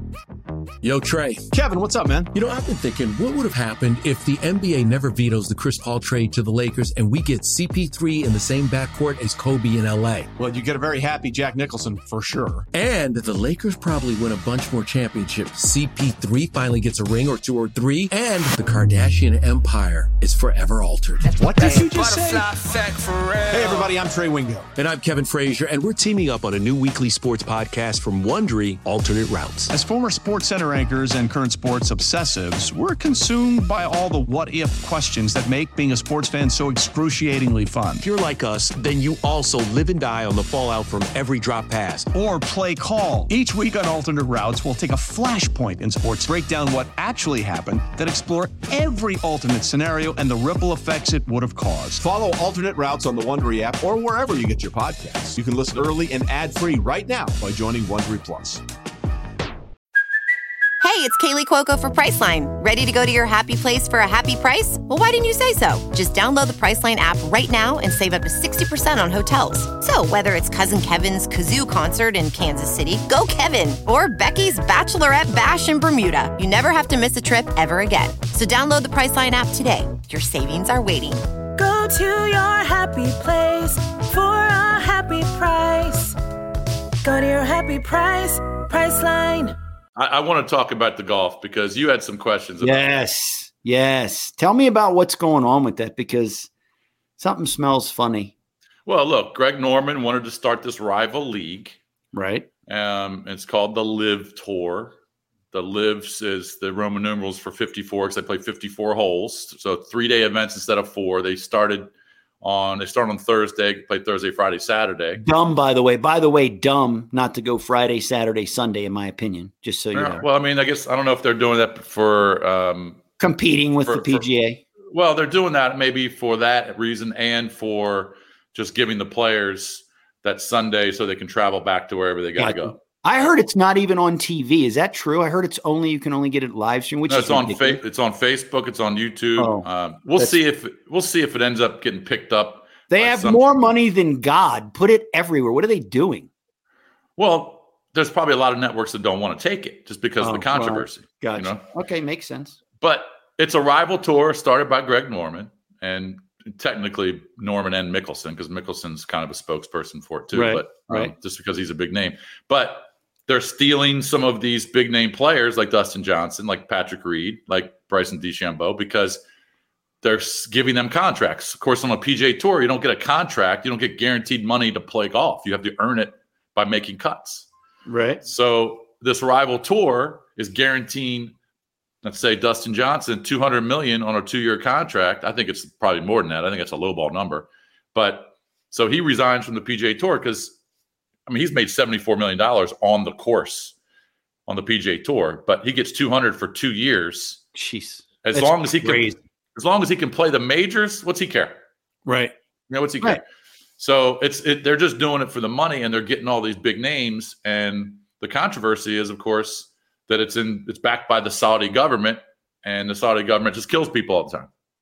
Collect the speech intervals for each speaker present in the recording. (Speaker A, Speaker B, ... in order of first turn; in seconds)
Speaker A: 0.8-1.5, 2.3-10.3, 12.7-23.9, 24.8-29.7, 38.0-41.8
Speaker B: 1.5-2.3, 10.4-12.7, 21.4-22.5, 23.5-24.7, 29.7-38.1, 42.1-52.0
Speaker C: 52.0-58.6
Speaker D: 60.8-81.2
Speaker E: 81.6-86.2, 87.0-89.5
Speaker F: 90.0-92.9, 98.9-101.8, 102.7-104.9, 105.5-111.9, 112.4-115.2, 119.9-123.0, 123.9-124.2, 124.9-132.8, 137.1-143.4, 147.2-151.6, 152.8-169.2, 170.0-177.5, 178.2-181.3, 182.0-190.6, 191.3-193.8, 194.5-197.4, 198.2-201.6, 202.7-203.2, 203.8-214.5
Speaker G: 92.6-96.5, 97.2-98.3, 102.1-102.5, 115.2-120.3, 123.2-124.6, 132.4-137.8, 139.4-140.4, 142.9-146.3, 150.2-152.6, 160.3-161.1, 177.9-178.2, 197.5-199.2, 202.1-202.3